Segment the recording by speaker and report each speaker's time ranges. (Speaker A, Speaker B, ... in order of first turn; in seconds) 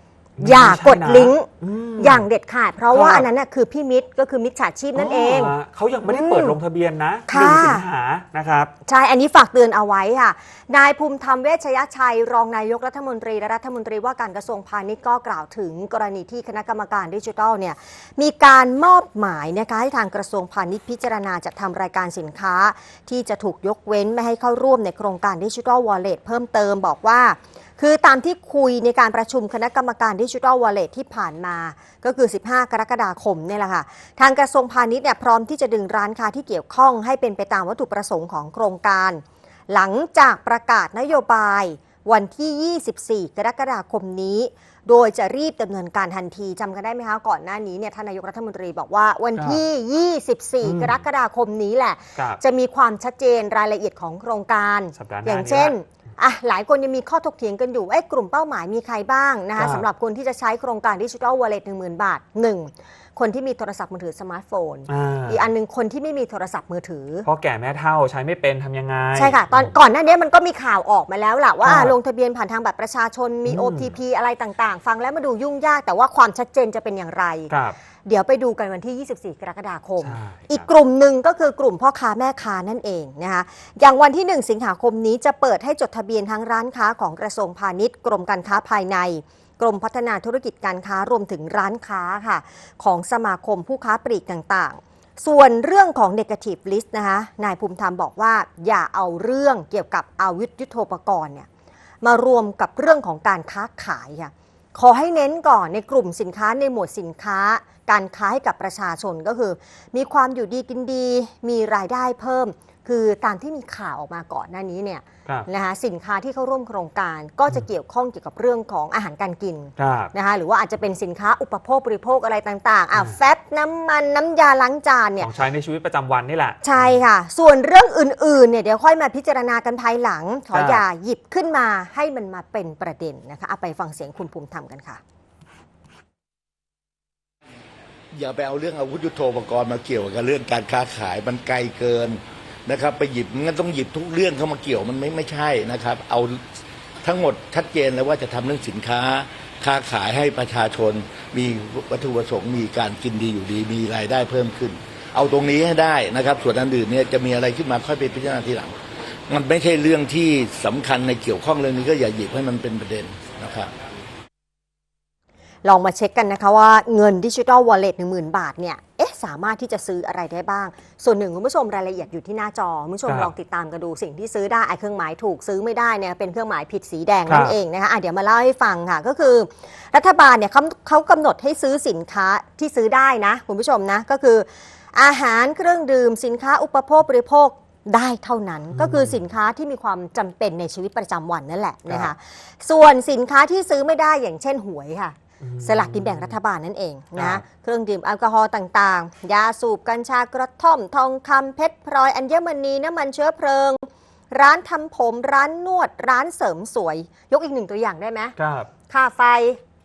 Speaker A: 0.4-2.2, 2.9-3.3, 5.0-8.7, 49.4-49.6, 50.6-51.0, 52.2-52.4, 54.9-55.8, 59.6-59.9, 64.9-65.5, 67.2-69.7, 71.6-72.0, 73.5-74.0, 77.5-77.8, 80.0-80.7, 119.8-120.1, 125.2-127.0, 130.5-130.8, 173.1-173.3, 177.3-177.6, 188.7-189.2, 195.4-196.4, 197.2-197.4, 208.4-208.7
Speaker B: 0.4-5.5, 6.0-6.6, 7.3-7.9, 8.8-67.3, 69.2-77.5, 78.1-101.5, 102.0-125.3, 126.6-135.0, 165.6-208.3, 208.9-209.6
Speaker C: 138.1-146.4, 147.0-158.8, 159.3-163.7